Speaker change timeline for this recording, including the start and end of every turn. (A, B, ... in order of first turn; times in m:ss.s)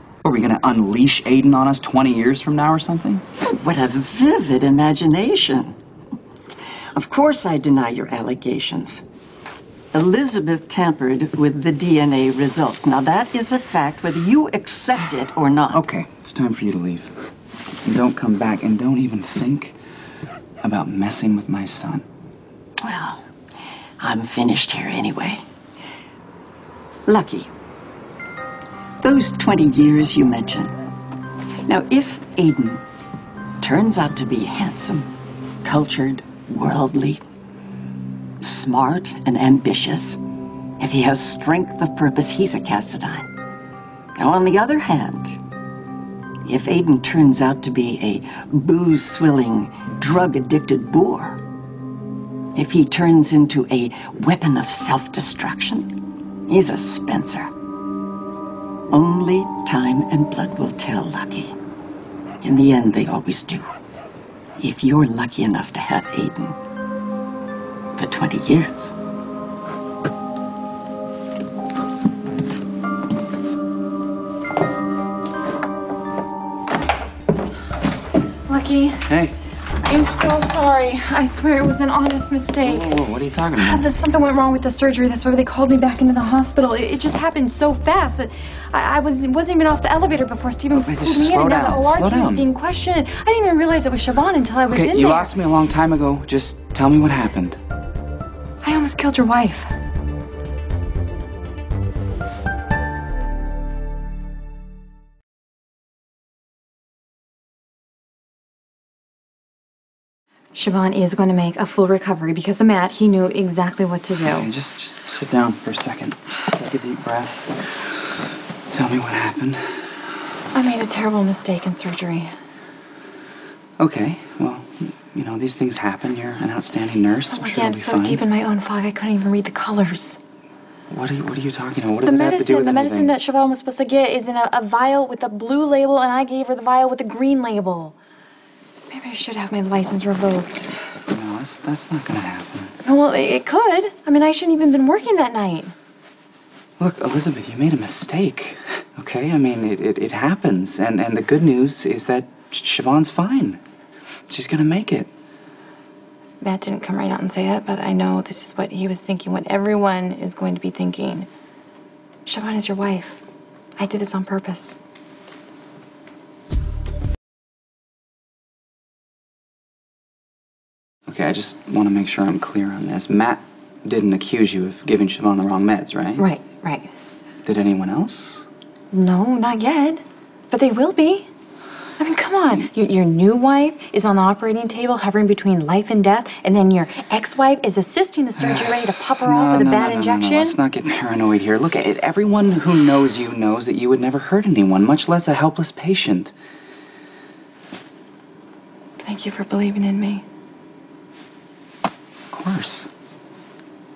0:00.2-0:03.2 A
0:03.5-0:05.8 B
0:07.0-0:09.0 B
0:09.9-0:15.8 B
0:15.7-0:17.1 A
0:17.8-0:19.8 A
0:20.6-0:22.0 A
0:22.8-0:23.2 B
0:24.0-0:25.4 B
0:27.1-0:27.5 B
0:29.0-0:30.7 B
0:31.7-0:32.8 B
0:33.6-0:35.1 B
0:35.6-0:37.2 B
0:38.4-0:40.2 B
0:40.8-0:43.3 B
0:44.2-0:45.4 B
0:46.4-0:51.4 B
0:52.6-0:55.9 B
0:56.5-0:57.5 B
0:58.9-1:01.6 B
1:02.4-1:03.7 B
1:04.6-1:06.6 B
1:08.0-1:08.9 B
1:18.5-1:19.1 C
1:19.1-1:19.4 A
1:19.8-1:23.0 C
1:22.6-1:23.9 A
1:23.6-1:35.3 C
1:30.7-1:32.5 A
1:34.7-1:37.6 A
1:38.6-1:39.8 C
1:50.5-1:54.5 C
1:54.2-1:57.9 A
1:58.7-2:00.0 A
2:00.5-2:02.3 C
2:03.8-2:08.2 A
2:07.3-2:10.2 C
2:10.9-2:13.2 A
2:12.0-2:18.0 C
2:18.9-2:20.7 C
2:21.1-2:22.7 A
2:22.8-2:25.7 C
2:26.8-2:33.6 A
2:34.3-2:35.1 A
2:36.4-2:41.3 C
2:42.3-2:43.2 C
2:43.8-2:44.8 C
2:51.1-2:56.3 A
2:56.2-2:56.9 C
2:57.4-2:58.5 A
2:58.9-3:01.3 C
3:02.0-3:10.6 C
3:08.4-3:16.3 A
3:19.0-3:20.2 C
3:22.3-3:22.9 A